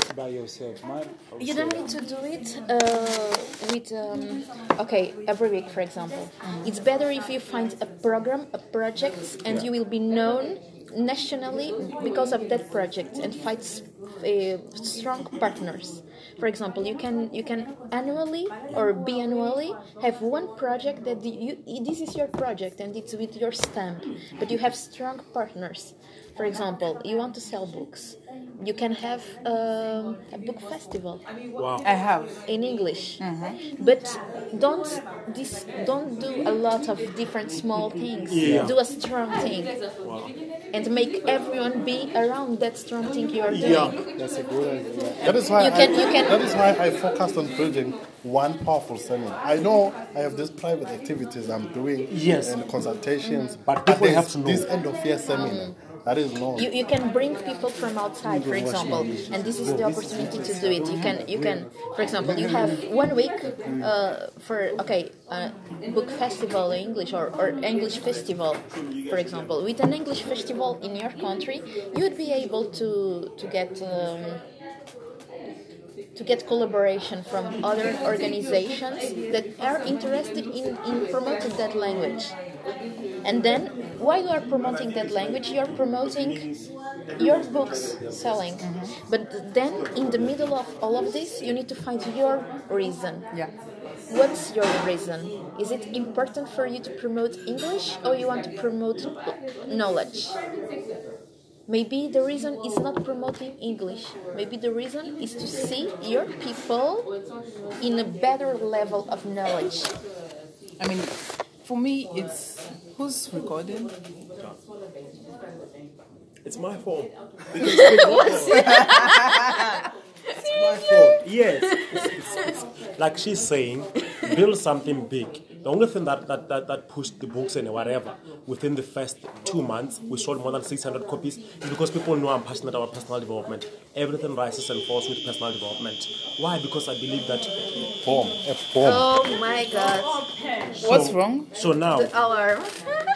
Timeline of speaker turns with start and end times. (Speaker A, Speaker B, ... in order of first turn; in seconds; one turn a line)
Speaker A: 0.1-1.8
Speaker B: 1.4-31.2
Speaker C: 6.4-6.7
Speaker D: 31.6-31.9
Speaker C: 31.8-32.4
Speaker B: 32.5-39.7
Speaker C: 33.2-33.6
Speaker D: 38.3-38.7
Speaker D: 40.0-40.3
Speaker B: 40.7-44.0
Speaker D: 43.5-44.0
Speaker A: 44.1-45.4
Speaker E: 45.2-56.7
Speaker B: 45.5-46.5
Speaker D: 52.1-52.6
Speaker B: 53.2-53.6
Speaker D: 53.6-54.7
Speaker B: 55.3-55.8
Speaker B: 56.5-74.4
Speaker A: 58.2-61.6
Speaker C: 60.7-61.2
Speaker A: 62.2-62.8
Speaker A: 63.6-63.9
Speaker D: 68.7-69.5
Speaker B: 76.1-82.3
Speaker B: 83.2-86.5
Speaker D: 84.7-86.6
Speaker D: 87.2-88.2
Speaker B: 87.2-93.3
Speaker C: 88.6-88.9
Speaker B: 94.1-100.3
Speaker B: 101.7-107.1
Speaker B: 107.8-109.9
Speaker C: 110.8-113.9
Speaker D: 116.4-118.7
Speaker B: 117.6-122.3
Speaker C: 118.5-119.4
Speaker D: 120.5-137.9
Speaker E: 138.0-139.1
Speaker B: 138.8-140.2
Speaker D: 140.7-142.1
Speaker C: 140.8-141.5
Speaker B: 141.9-142.8